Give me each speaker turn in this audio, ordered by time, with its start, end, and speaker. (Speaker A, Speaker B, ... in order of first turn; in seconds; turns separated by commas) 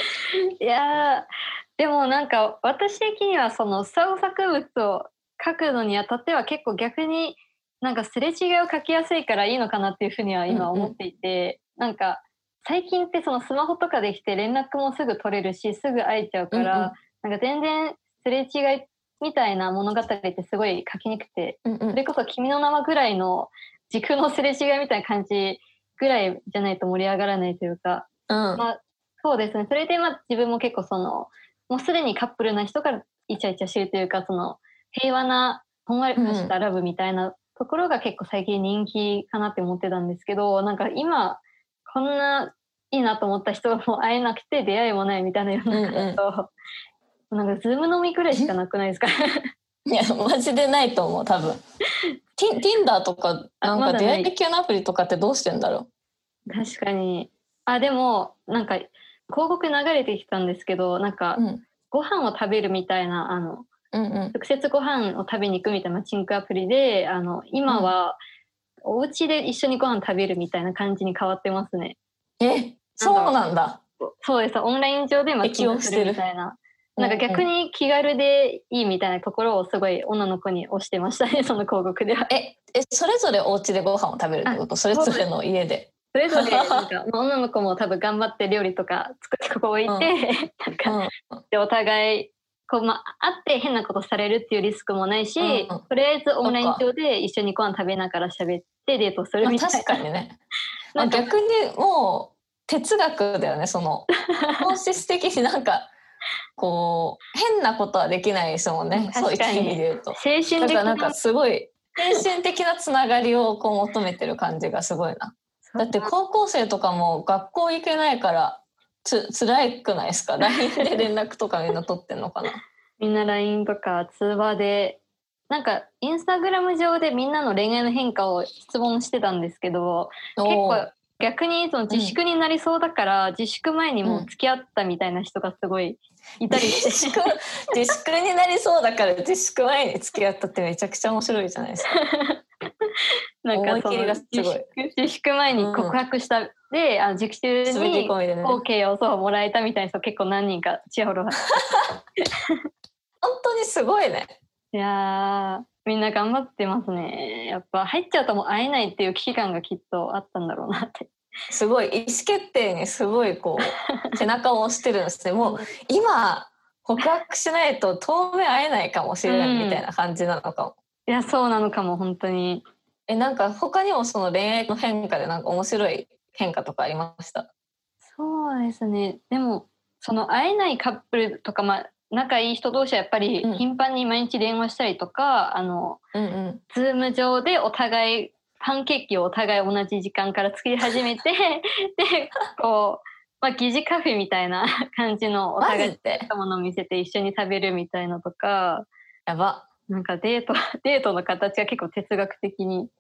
Speaker A: 0.6-46.5, Speaker B: 10.5-10.9, Speaker B: 16.5-16.9, Speaker B: 21.6-22.0, Speaker B: 28.3-28.6, Speaker B: 36.2-36.5, Speaker B: 45.7-46.2, Speaker A: 47.3-49.5, Speaker B: 49.9-51.6, Speaker B: 52.4-55.9, Speaker A: 53.6-54.3, Speaker A: 56.5-63.7, Speaker B: 61.4-61.6, Speaker B: 63.9-64.3, Speaker A: 64.3-68.2, Speaker B: 67.7-67.9, Speaker A: 68.8-72.0, Speaker B: 72.4-73.8, Speaker A: 73.0-73.4, Speaker A: 74.0-82.3, Speaker B: 75.4-76.2, Speaker B: 77.0-77.5, Speaker B: 82.3-86.9, Speaker A: 84.5-85.3, Speaker A: 86.1-91.0, Speaker B: 90.8-91.4, Speaker A: 91.5-99.9, Speaker B: 95.4-95.8, Speaker B: 96.4-96.8, Speaker B: 99.4-100.4, Speaker A: 100.9-101.3, Speaker B: 101.0-105.9, Speaker A: 104.3-104.6, Speaker B: 106.6-122.6, Speaker A: 108.9-111.2, Speaker A: 115.7-116.1, Speaker A: 123.0-137.2, Speaker B: 130.4-130.8, Speaker B: 131.9-132.2, Speaker B: 136.5-141.9, Speaker A: 141.9-142.4, Speaker A: 143.4-151.6, Speaker B: 143.5-144.7, Speaker B: 145.6-146.0, Speaker B: 147.7-148.6, Speaker B: 153.2-154.4, Speaker A: 154.7-161.1, Speaker B: 161.5-170.8, Speaker A: 163.7-164.1, Speaker A: 165.4-165.7, Speaker A: 169.3-169.8, Speaker A: 171.1-172.7, Speaker B: 173.1-177.5, Speaker A: 178.1-186.0, Speaker B: 186.1-186.6, Speaker A: 186.7-198.9, Speaker B: 195.6-196.3, Speaker B: 199.3-199.7, Speaker A: 199.9-202.9